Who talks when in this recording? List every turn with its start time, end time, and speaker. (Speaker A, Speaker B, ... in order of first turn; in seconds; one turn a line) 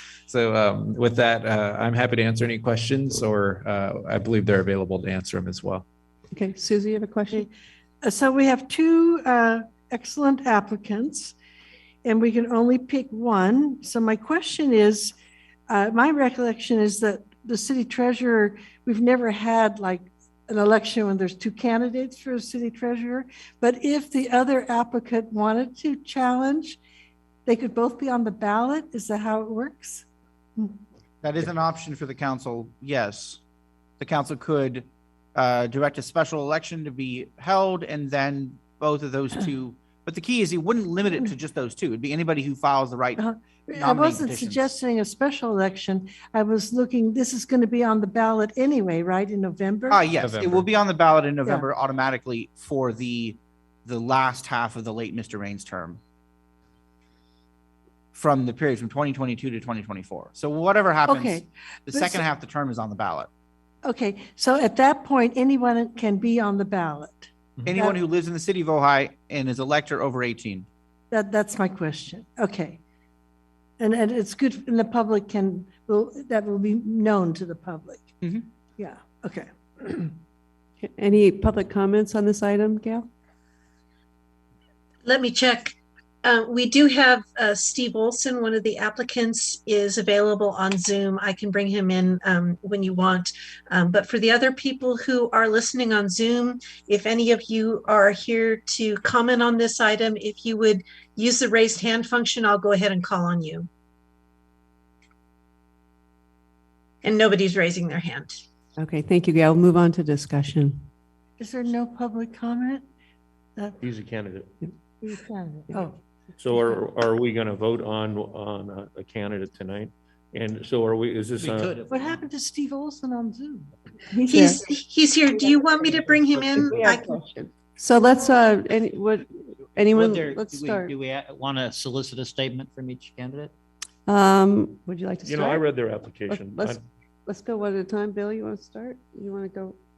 Speaker A: 0.3-5.8
Speaker B: 6.3-7.5
Speaker C: 8.0-11.3
Speaker C: 12.0-15.2
Speaker C: 15.7-26.8
Speaker C: 27.4-30.1
Speaker D: 31.2-33.4
Speaker D: 34.0-44.7
Speaker C: 43.2-50.0
Speaker D: 49.9-56.0
Speaker A: 50.2-50.7
Speaker D: 58.1-63.3
Speaker C: 61.0-62.2
Speaker C: 63.8-68.0
Speaker D: 67.7-70.7
Speaker C: 71.1-72.8
Speaker C: 73.8-78.1
Speaker C: 78.8-80.1
Speaker B: 80.8-83.1
Speaker E: 85.0-103.7
Speaker E: 107.0-108.4
Speaker B: 108.8-110.8
Speaker C: 111.4-112.9
Speaker F: 113.8-114.5
Speaker C: 115.0-115.9
Speaker F: 116.4-121.8
Speaker G: 121.4-122.0
Speaker C: 121.9-123.7
Speaker B: 124.1-124.6
Speaker E: 124.2-127.2
Speaker B: 126.6-130.9
Speaker G: 129.9-133.5
Speaker B: 134.1-135.6
Speaker F: 135.2-136.8
Speaker B: 136.3-139.8